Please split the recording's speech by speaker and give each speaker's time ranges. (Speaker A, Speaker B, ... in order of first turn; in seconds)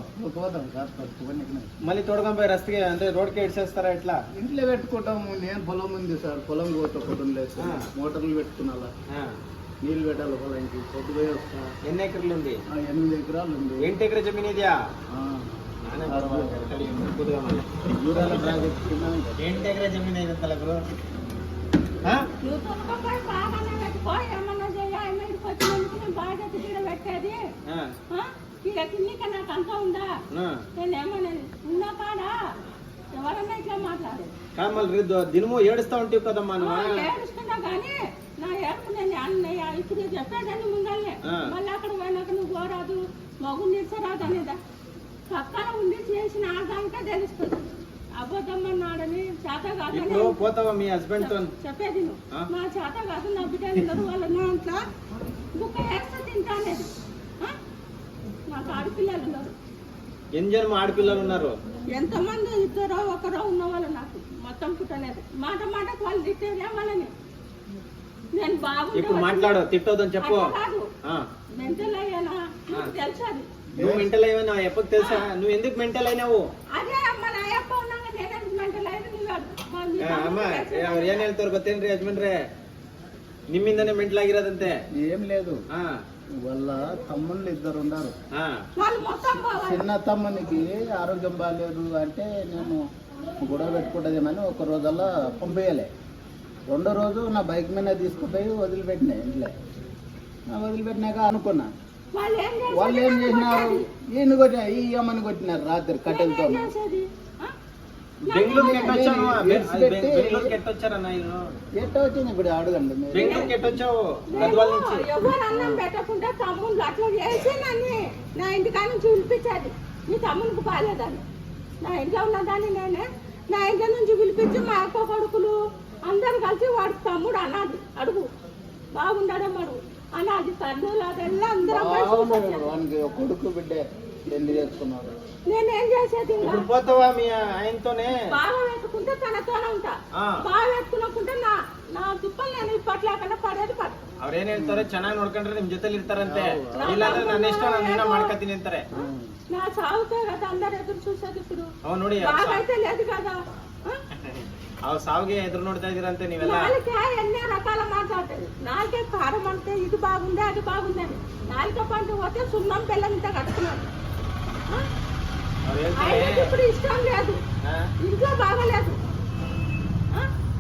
Speaker A: 0.2-1.7, 4.3-8.9, 9.8-11.7, 12.7-13.9, 15.1-15.5, 16.1-16.7, 17.9-19.4, 73.7-74.1, 84.9-85.6, 86.5-88.2, 89.4-92.8, 93.4-95.9, 96.7-99.5, 100.5-101.7, 102.7-106.7, 108.5-110.5, 111.8-113.6, 131.6-135.1, 144.6-144.9, 146.2-147.2, 148.9-149.3
Speaker B: 1.8-4.2, 7.6-7.9, 9.1-9.4, 11.9-12.6, 13.8-14.8, 15.9-18.7, 19.4-20.8, 30.3-30.6, 34.6-37.1, 49.9-51.5, 60.4-61.5, 68.9-70.5, 73.8-76.5, 80.0-82.4, 83.5-84.8, 85.7-86.0, 88.3-88.6, 108.3-111.5, 113.1-115.8, 136.4-138.2, 144.2-148.9, 151.8-152.6, 154.2-156.7, 165.7-166.5, 167.6-167.9
Speaker C: 22.4-27.4, 28.1-30.1, 30.8-32.4, 33.1-34.4, 36.6-44.6, 45.3-47.6, 48.2-50.3, 51.2-54.8, 55.6-56.9, 58.5-59.5, 61.9-67.1, 68.3-69.6, 70.2-70.9, 71.5-73.5, 75.0-75.3, 76.7-81.3, 88.8-89.8, 102.2-103.8, 106.1-107.5, 108.3-109.0, 113.2-113.5, 114.3-121.2, 121.8-128.2, 129.0-132.7, 135.5-136.7, 138.3-144.0, 146.8-148.3, 149.0-154.0, 156.4-163.8, 165.9-167.4, 168.0-169.0